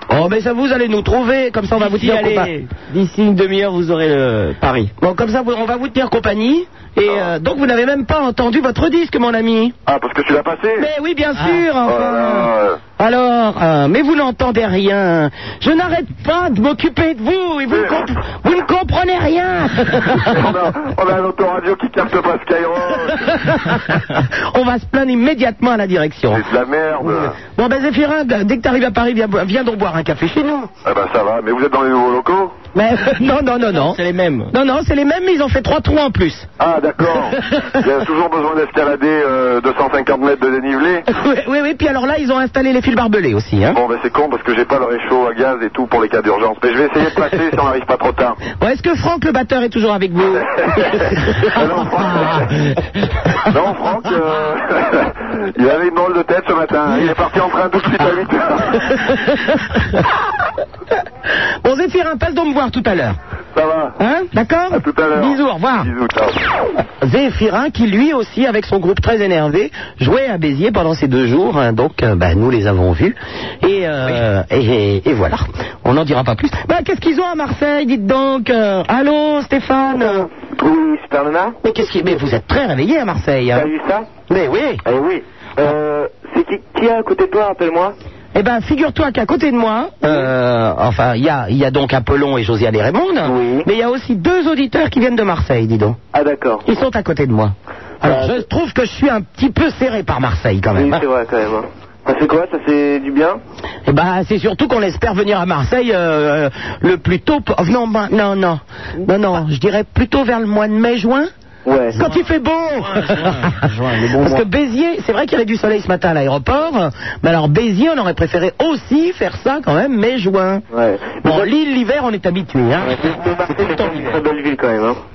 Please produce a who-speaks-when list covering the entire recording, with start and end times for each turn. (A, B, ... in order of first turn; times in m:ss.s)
0:00.1-0:02.5 A
0:01.7-0:04.9 B
0:05.0-0:09.7 A
0:09.9-0:10.9 C
0:10.8-0:20.4 A
0:11.8-0:12.8 C
0:17.7-0:18.0 C
0:20.1-0:23.4 C
0:23.6-0:26.4 A
0:26.3-0:27.4 C
0:27.0-0:30.7 A
0:30.8-0:32.5 C
0:32.7-0:34.0 A
0:33.6-0:34.5 B
0:34.5-0:36.5 A
0:36.6-0:41.0 C
0:41.1-0:43.8 A
0:43.7-0:48.4 C
0:48.6-0:52.7 A
0:50.3-0:52.6 C
0:53.4-0:59.2 C
1:01.6-1:03.2 A
1:03.5-1:03.9 C
1:04.0-1:05.9 A
1:04.7-1:06.4 C
1:07.0-1:20.3 A
1:20.6-1:21.6 D
1:21.6-1:23.7 A
1:23.5-1:24.1 D
1:24.3-1:24.8 A
1:24.8-1:27.9 D
1:28.3-1:36.0 A
1:33.2-1:33.6 D
1:36.1-1:36.6 D
1:36.6-1:41.0 A
1:38.1-1:38.4 D
1:40.8-1:43.4 D
1:43.9-1:51.3 A
1:51.6-1:52.0 D
1:51.9-1:53.5 A
1:52.8-1:54.4 B
1:54.2-2:00.6 A
2:00.7-2:01.5 D
2:01.2-2:04.2 A
2:02.8-2:05.0 D